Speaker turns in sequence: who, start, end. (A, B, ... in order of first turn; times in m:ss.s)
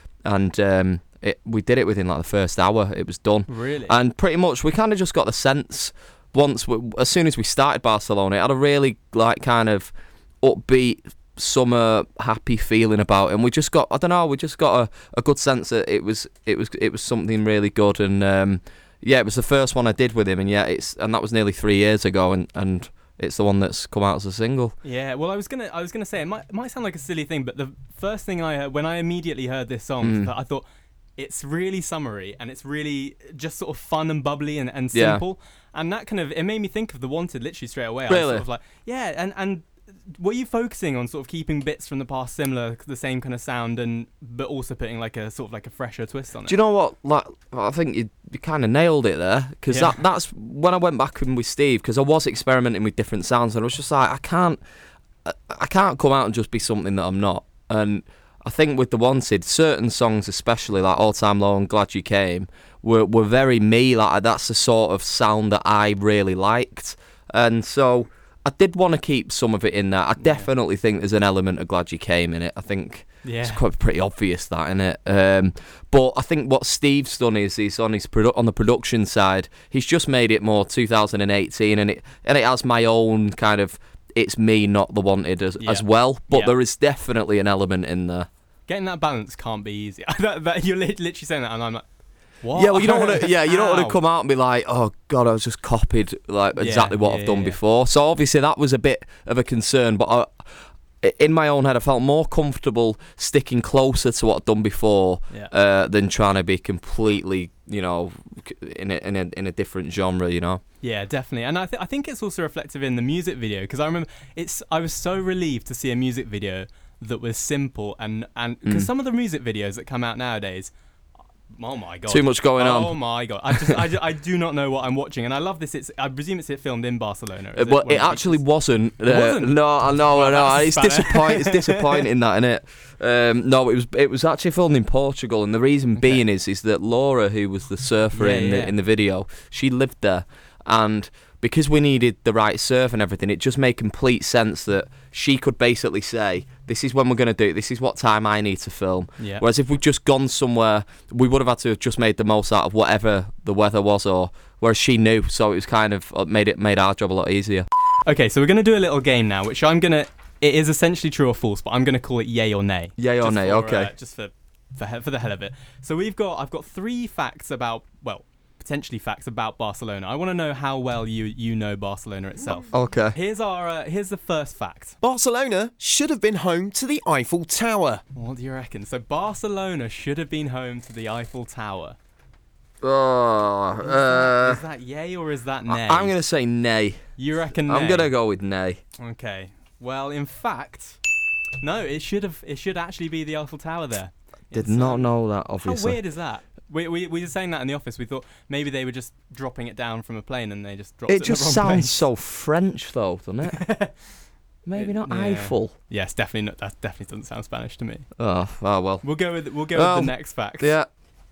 0:00.2-0:24.7 A
0:03.5-0:03.9 B
0:24.8-0:30.6 B
0:30.0-0:30.3 A
0:31.2-0:46.6 B
0:34.9-0:35.2 A
0:38.1-0:38.4 A
0:46.4-0:54.6 A
0:49.7-0:50.0 B
0:55.2-1:28.3 A
1:10.2-1:10.5 B
1:13.2-1:13.6 B
1:25.6-1:26.6 B
1:28.7-1:31.8 B
1:32.4-1:34.0 B
1:32.6-1:40.4 A
1:36.6-1:37.6 B
1:41.0-1:50.6 A
1:50.8-2:00.7 B
2:01.5-2:08.4 B
2:02.1-2:03.0 A
2:03.6-2:03.8 A
2:07.6-2:37.6 A
2:09.1-2:12.0 B
2:16.0-2:16.2 B
2:18.1-2:18.7 B
2:29.2-2:29.4 B
2:38.1-2:54.9 B
2:43.0-2:43.9 A
2:52.7-2:53.2 A
2:55.0-2:58.0 C
2:58.1-3:02.0 B
3:02.8-3:04.6 A
3:03.8-3:06.2 B
3:05.7-3:07.0 A
3:07.2-3:08.1 B
3:07.6-3:08.8 A
3:09.0-3:11.0 B
3:11.6-3:15.1 B
3:14.5-3:16.0 A
3:15.6-3:22.0 B
3:21.1-3:23.7 A
3:23.5-3:23.9 B
3:24.6-3:25.7 A
3:24.8-3:28.1 B
3:28.2-3:29.1 A
3:29.0-3:30.7 B
3:29.7-3:30.9 A